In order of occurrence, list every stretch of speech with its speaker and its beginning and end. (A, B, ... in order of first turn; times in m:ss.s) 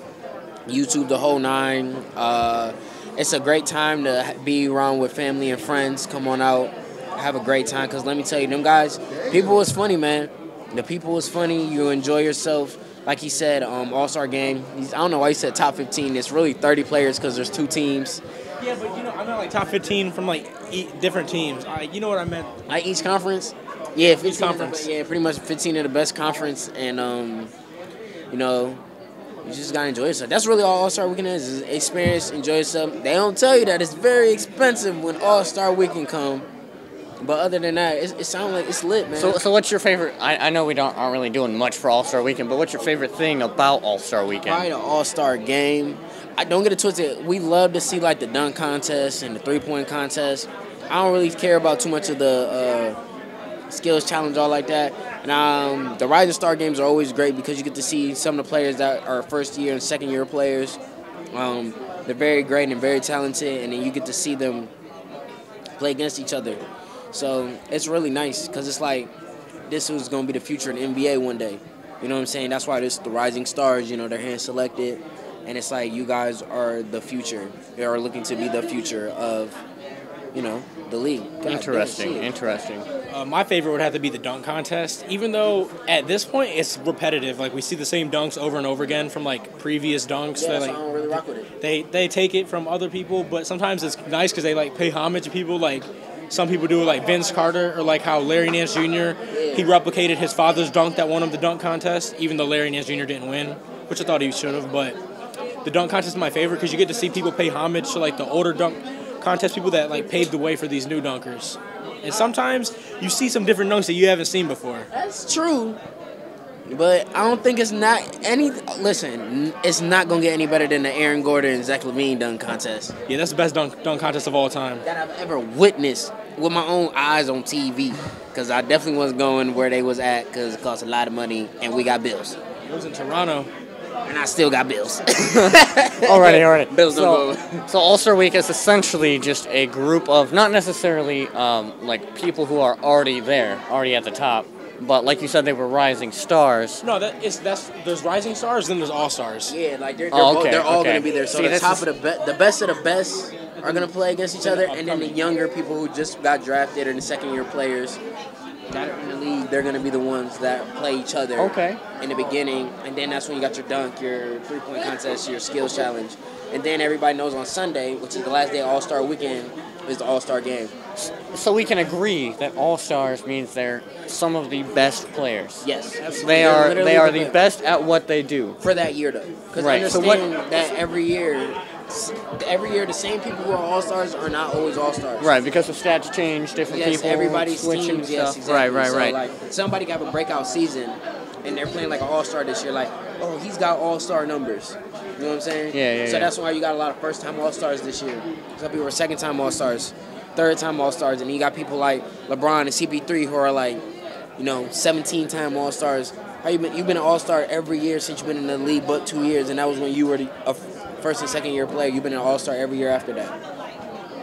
0:00.7-0:18.2 A
0:18.6-0:22.5 B
0:22.7-0:27.5 A
0:24.2-0:24.9 B
0:28.3-0:28.8 A
0:29.4-0:36.4 A
0:37.2-0:39.4 A
0:39.1-0:44.7 C
0:44.4-0:53.0 A
0:53.7-1:00.8 A
1:01.3-1:04.7 A
1:05.8-1:09.1 A
1:09.7-1:19.6 A
1:20.3-1:22.3 A
1:21.4-1:22.9 C
1:23.1-1:30.8 B
1:30.3-1:31.5 A
1:31.6-1:45.0 B
1:39.3-1:39.7 A
1:45.6-1:54.9 B
1:54.9-1:55.8 A
1:56.7-2:02.9 A
2:03.0-2:04.8 B
2:04.8-2:12.4 A
2:12.7-2:13.5 B
2:14.0-2:17.7 A
2:15.3-2:26.8 C
2:26.8-2:29.5 B
2:29.5-2:38.0 A
2:30.1-2:31.8 C
2:33.6-2:35.2 B
2:38.7-2:50.7 A
2:41.4-2:41.8 C
2:51.0-2:58.6 C
2:55.6-2:57.4 A
2:58.6-3:05.3 A
2:59.6-3:00.2 C
3:05.2-3:09.2 C
3:06.7-3:23.8 A
3:15.7-3:16.3 C
3:24.4-3:33.3 A